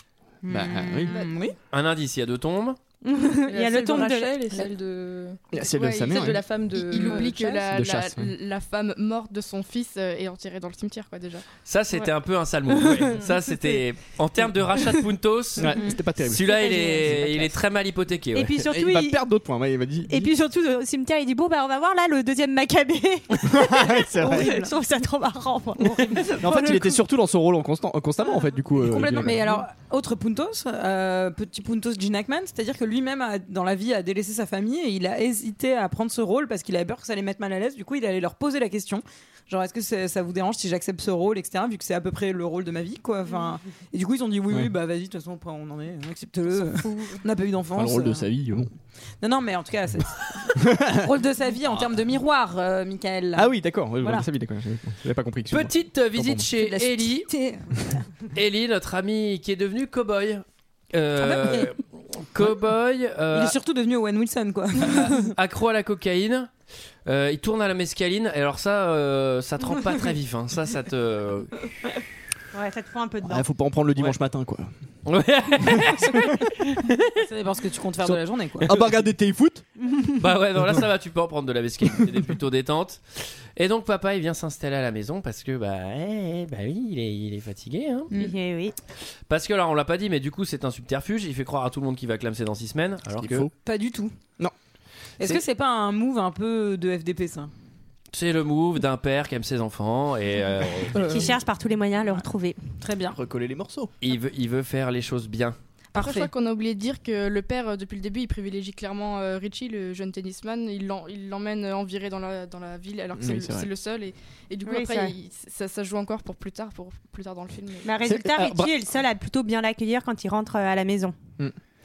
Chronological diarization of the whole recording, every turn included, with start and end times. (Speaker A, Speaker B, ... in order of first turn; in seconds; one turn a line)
Speaker A: 0.4-1.5
Speaker B: 0.5-1.2
Speaker C: 1.7-2.8
Speaker D: 3.0-4.7
Speaker E: 3.5-7.8
Speaker B: 5.5-6.4
Speaker F: 5.6-11.4
Speaker B: 7.7-8.3
Speaker C: 11.7-18.6
Speaker B: 15.6-16.4
Speaker D: 16.4-17.5
Speaker D: 18.3-19.2
Speaker B: 18.6-20.3
Speaker D: 20.1-26.9
Speaker B: 23.4-24.7
Speaker A: 24.3-24.6
Speaker A: 25.8-26.4
Speaker B: 26.4-29.6
Speaker A: 28.8-48.3
Speaker B: 47.7-48.7
Speaker A: 49.2-54.2
Speaker B: 50.5-51.1
Speaker B: 53.3-56.5
Speaker C: 55.5-57.3
Speaker A: 56.5-58.0
Speaker C: 58.3-63.5
Speaker A: 61.2-61.7
Speaker A: 63.3-65.3
Speaker C: 64.8-66.5
Speaker C: 67.0-71.7
Speaker D: 72.5-73.4
Speaker B: 73.2-74.7
Speaker C: 75.0-77.1
Speaker B: 75.7-76.0
Speaker A: 77.2-78.7
Speaker B: 78.0-79.6
Speaker C: 78.6-79.0
Speaker C: 80.2-88.1
Speaker D: 88.1-88.7
Speaker C: 89.3-93.5
Speaker B: 93.1-93.5
Speaker A: 93.6-94.1
Speaker A: 95.2-97.5
Speaker C: 98.1-101.3
Speaker D: 101.0-102.6
Speaker A: 102.8-103.2
Speaker B: 103.1-103.9
Speaker C: 104.0-105.5
Speaker A: 105.9-106.3
Speaker F: 105.9-117.9
Speaker B: 113.2-113.7
Speaker D: 114.6-115.1
Speaker D: 117.8-121.1
Speaker B: 118.0-118.7